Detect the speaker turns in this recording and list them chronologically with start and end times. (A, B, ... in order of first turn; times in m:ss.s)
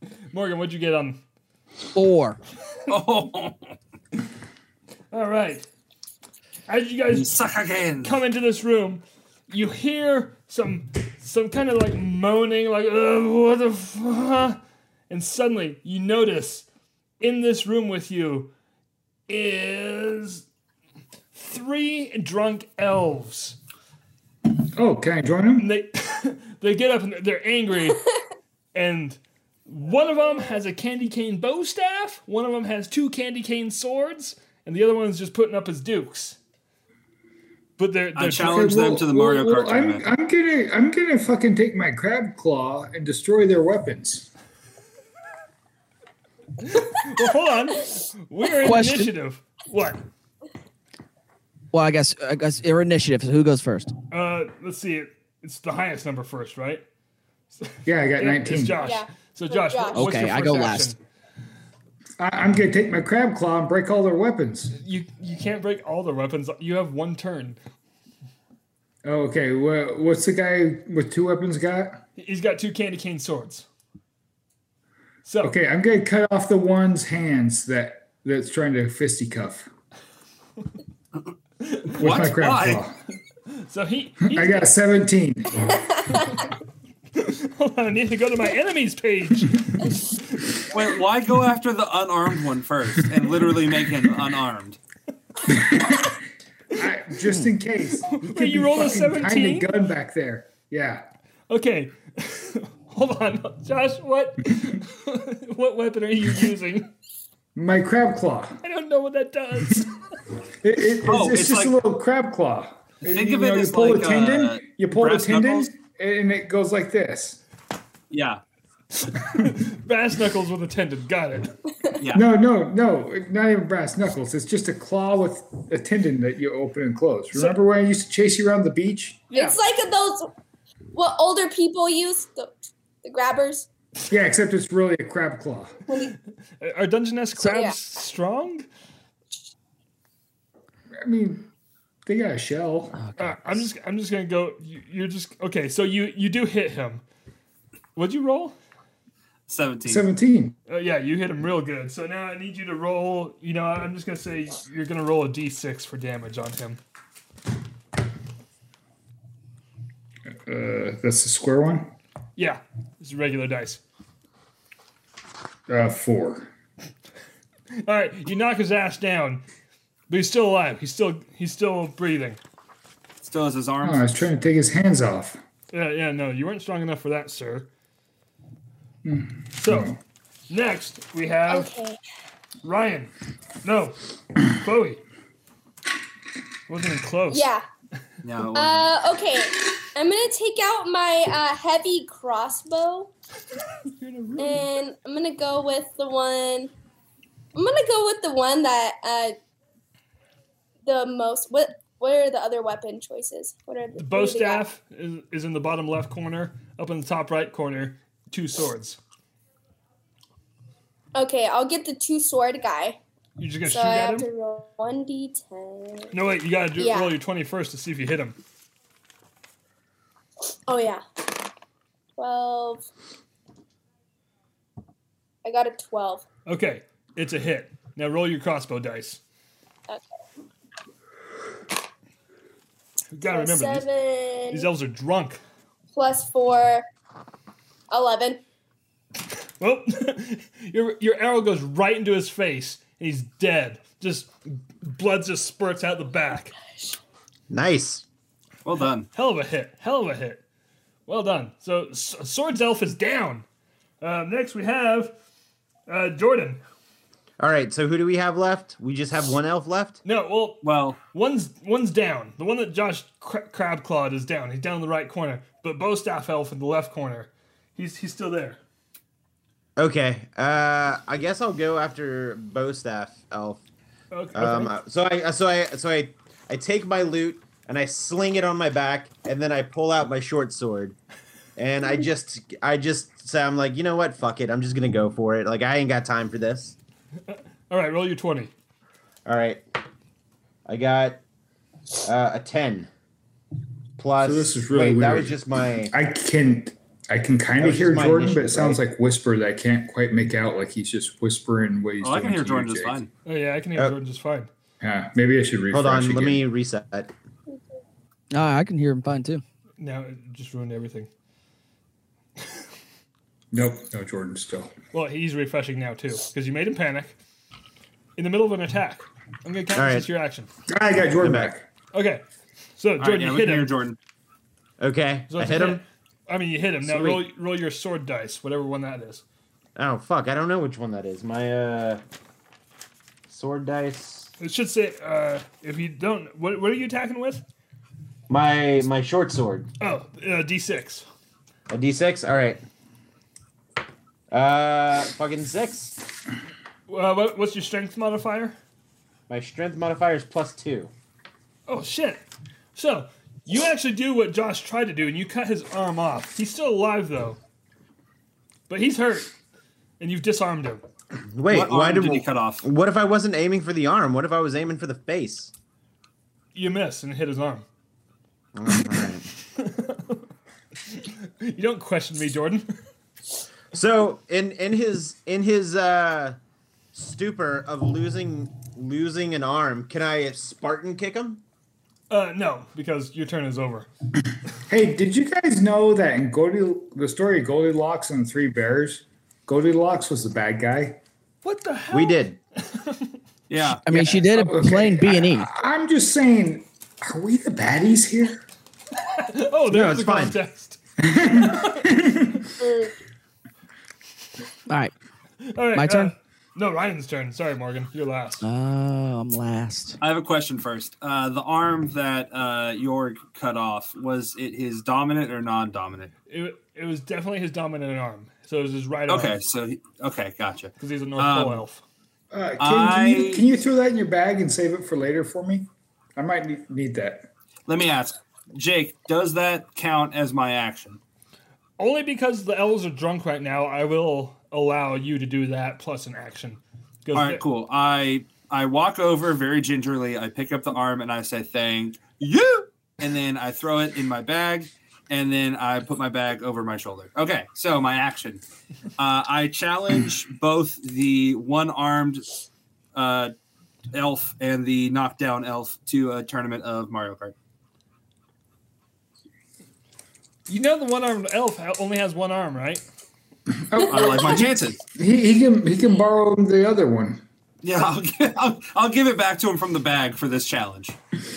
0:00.3-0:01.2 A
0:01.9-0:02.4 B
0:02.9-0:03.7 C
0:05.1-0:05.6 A
0:06.7-0:07.4 A
0:07.1-0:08.2 C
0:08.0-0:16.6 A
0:17.2-0:18.5 A
0:19.3-0:20.4 A
0:21.3-0:23.6 A
0:24.8-0:25.7 D
0:25.6-0:28.0 A
0:28.7-0:36.4 A
0:37.8-0:38.7 A
0:38.2-0:40.0 C
0:38.4-0:44.3 D
0:46.6-0:50.0 A
0:48.6-0:49.1 B
0:51.7-0:53.9 B
0:54.1-0:56.8 A
0:57.5-1:01.0 A
0:57.8-0:58.8 D
0:58.8-1:00.1 E
0:59.9-1:00.9 B
1:02.2-1:04.7 D
1:04.7-1:07.6 A
1:09.0-1:12.0 D
1:12.2-1:13.6 A
1:15.2-1:15.5 A
1:15.4-1:19.7 D
1:21.6-1:22.0 A
1:22.0-1:22.8 C
1:22.0-1:23.0 D
1:23.5-1:24.8 A
1:24.3-1:25.8 D
1:25.8-1:26.4 E
1:27.2-1:30.6 A
1:30.7-1:34.8 C
1:35.5-1:36.1 D
1:36.7-1:41.0 D
1:38.1-1:39.7 A
1:41.5-1:46.9 A
1:47.6-1:48.6 D
1:48.6-1:49.9 A
1:50.6-1:57.4 D
1:51.0-1:51.8 C
1:53.0-1:55.7 C
1:58.1-1:58.4 C
1:59.1-2:01.5 A
2:02.0-2:02.2 C
2:02.1-2:09.2 D
2:09.3-2:09.6 A
2:09.3-2:10.3 E
2:10.9-2:13.7 E
2:14.1-2:15.8 D
2:15.9-2:16.1 E
2:16.6-2:18.6 A
2:17.4-2:17.8 E
2:21.0-2:21.5 D
2:22.0-2:22.9 D
2:22.9-2:23.6 B
2:23.2-2:27.0 A
2:28.0-2:28.5 A
2:29.5-2:30.0 C
2:29.8-2:30.6 D
2:30.7-2:36.8 A
2:40.4-2:41.9 D
2:42.4-2:43.8 A
2:45.7-2:46.5 D
2:47.7-2:49.4 A
2:50.1-2:52.4 A
2:53.2-2:54.3 C
2:53.8-2:55.4 D
2:55.7-2:57.7 A
2:59.0-3:00.0 D
2:59.6-2:59.9 A
3:00.5-3:01.7 A
3:01.5-3:02.0 E
3:02.6-3:03.1 A
3:03.6-3:05.0 A
3:06.7-3:07.5 A
3:07.3-3:07.6 E
3:08.2-3:08.9 C
3:08.5-3:13.1 E
3:13.9-3:14.7 A
3:14.4-3:16.7 E
3:17.5-3:19.4 E
3:20.8-3:24.6 E
3:24.0-3:29.0 A
3:31.1-3:33.0 E
3:33.4-3:34.3 A
3:33.6-3:36.1 E
3:36.1-3:38.4 A
3:36.8-3:37.1 E
3:40.7-3:41.0 E
3:42.2-3:42.9 E
3:45.4-3:46.2 E
3:46.5-3:49.2 A
3:49.9-3:50.1 E
3:53.1-3:53.8 A
3:53.3-3:54.7 E
3:54.5-3:55.4 A
3:55.9-3:56.9 E
3:57.9-3:58.4 E
3:59.6-4:06.5 A
4:07.5-4:08.0 F
4:08.6-4:09.1 C
4:09.1-4:10.4 A
4:11.1-4:13.4 A
4:14.0-4:15.1 A
4:15.9-4:16.6 A
4:17.4-4:20.0 F
4:20.0-4:28.6 A
4:20.6-4:21.0 C
4:29.8-4:33.6 F
4:34.1-4:34.7 A
4:34.3-4:40.9 F
4:41.6-4:46.7 F
4:47.3-4:48.5 A
4:49.2-4:49.6 F
4:50.6-4:51.2 F
4:52.0-4:52.9 F
4:54.0-4:55.9 F
4:54.2-4:55.4 D
4:55.9-5:03.0 D
4:57.6-4:58.8 F
5:02.0-5:03.1 C
5:03.2-5:04.5 A
5:04.8-5:06.4 D
5:05.7-5:07.1 F
5:08.3-5:09.4 B
5:09.8-5:11.1 A
5:13.5-5:14.7 D
5:14.9-5:17.2 A
5:18.2-5:20.5 A
5:19.7-5:20.1 F
5:20.7-5:21.7 D
5:21.2-5:21.5 F
5:21.9-5:22.2 A
5:22.8-5:23.7 A
5:23.0-5:24.0 C
5:24.8-5:25.8 F
5:25.3-5:29.2 A
5:26.8-5:27.2 F
5:29.8-5:32.0 F
5:33.3-5:34.3 F
5:34.4-5:37.4 A
5:38.3-5:39.7 F
5:39.8-5:41.0 A
5:41.7-5:42.6 F
5:44.3-5:46.0 F
5:46.9-5:48.6 A
5:49.3-5:50.9 F
5:51.7-5:52.2 A
5:52.7-5:57.4 A
5:58.7-5:59.3 A
6:00.0-6:00.8 A
6:01.3-6:05.5 F
6:01.5-6:02.6 C
6:06.5-6:07.6 A
6:08.5-6:09.2 F
6:09.5-6:10.2 A
6:10.9-6:12.7 A
6:13.7-6:16.4 F
6:16.9-6:21.4 F
6:22.1-6:23.9 A
6:24.7-6:31.0 D
6:31.4-6:33.2 A
6:31.9-6:32.4 F
6:33.5-6:33.8 C
6:33.8-6:35.5 B
6:34.1-6:38.4 D
6:39.0-6:41.9 A
6:39.7-6:40.4 F
6:41.0-6:42.5 D
6:42.6-6:42.9 E
6:44.7-6:44.9 B
6:45.4-6:48.4 A
6:45.7-6:46.1 B
6:48.4-6:50.0 B
6:50.0-6:56.1 C
6:56.3-6:59.4 A
6:59.1-7:01.6 C
7:00.8-7:01.8 A
7:02.3-7:07.3 D
7:02.6-7:03.4 C
7:07.7-7:11.0 C
7:11.8-7:17.4 A
7:17.1-7:28.4 C
7:29.0-7:32.3 C
7:32.9-7:33.3 C
7:33.9-7:37.3 C
7:40.5-7:42.8 A
7:43.7-7:47.2 D
7:43.9-7:44.8 C
7:47.6-7:51.0 C